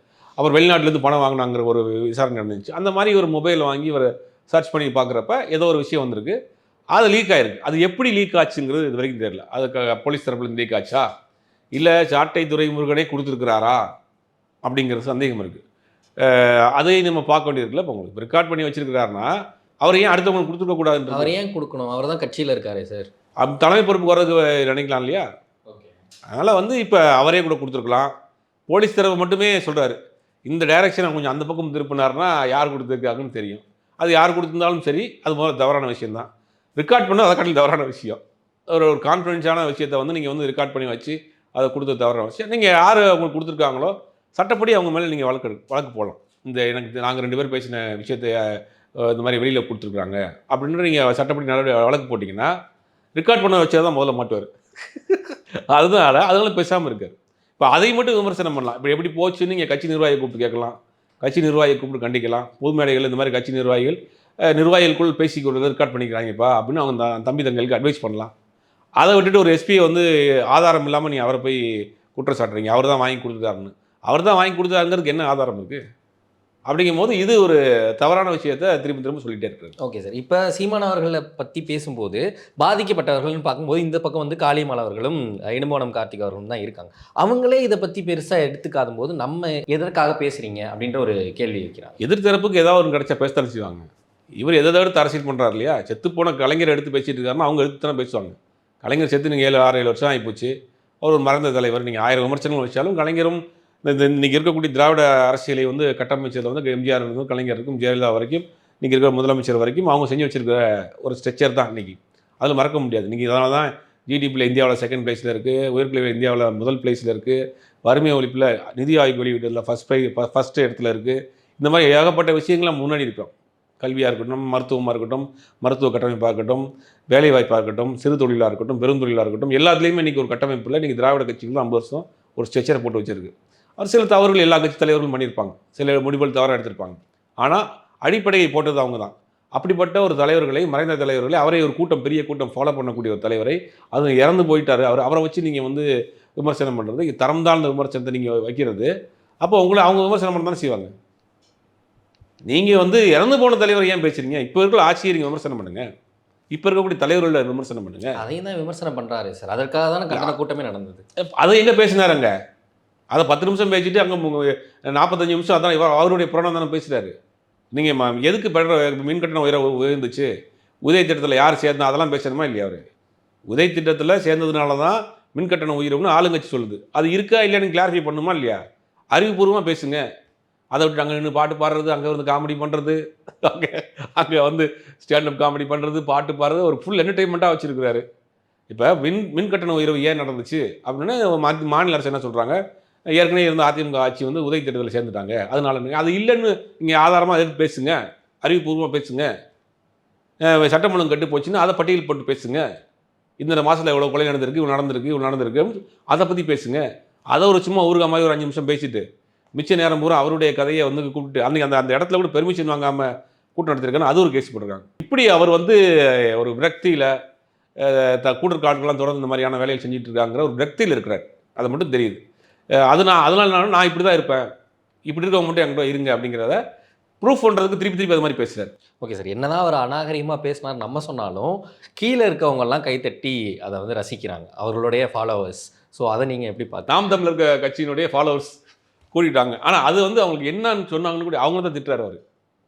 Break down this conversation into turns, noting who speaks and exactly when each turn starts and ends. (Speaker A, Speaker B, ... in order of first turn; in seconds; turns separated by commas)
Speaker A: 0.4-6.4, Speaker A: 6.9-11.1, Speaker A: 11.7-13.9, Speaker A: 14.6-15.6, Speaker A: 16.2-21.3, Speaker B: 21.1-23.1, Speaker A: 23.4-25.2, Speaker B: 25.7-26.0, Speaker A: 26.3-28.1, Speaker A: 28.7-52.5, Speaker A: 53.1-68.3, Speaker A: 69.0-71.6, Speaker A: 72.1-75.8, Speaker A: 76.7-79.7, Speaker B: 79.8-92.0, Speaker A: 92.0-93.9, Speaker A: 94.4-145.9, Speaker A: 146.4-148.9, Speaker A: 149.4-150.9, Speaker A: 152.5-155.8, Speaker A: 156.5-158.2, Speaker B: 158.2-161.0, Speaker A: 161.4-162.3, Speaker A: 163.1-167.1, Speaker A: 167.7-170.3, Speaker A: 170.8-172.8, Speaker A: 173.5-178.6, Speaker A: 179.1-180.0, Speaker A: 180.7-188.0, Speaker A: 188.7-192.6, Speaker A: 193.1-199.3, Speaker A: 200.5-202.6, Speaker A: 203.4-209.0, Speaker A: 209.5-217.1, Speaker A: 217.8-222.2, Speaker A: 222.8-224.5, Speaker A: 225.1-226.6, Speaker A: 227.2-228.7, Speaker B: 229.0-236.9, Speaker A: 236.9-238.5, Speaker A: 239.1-242.2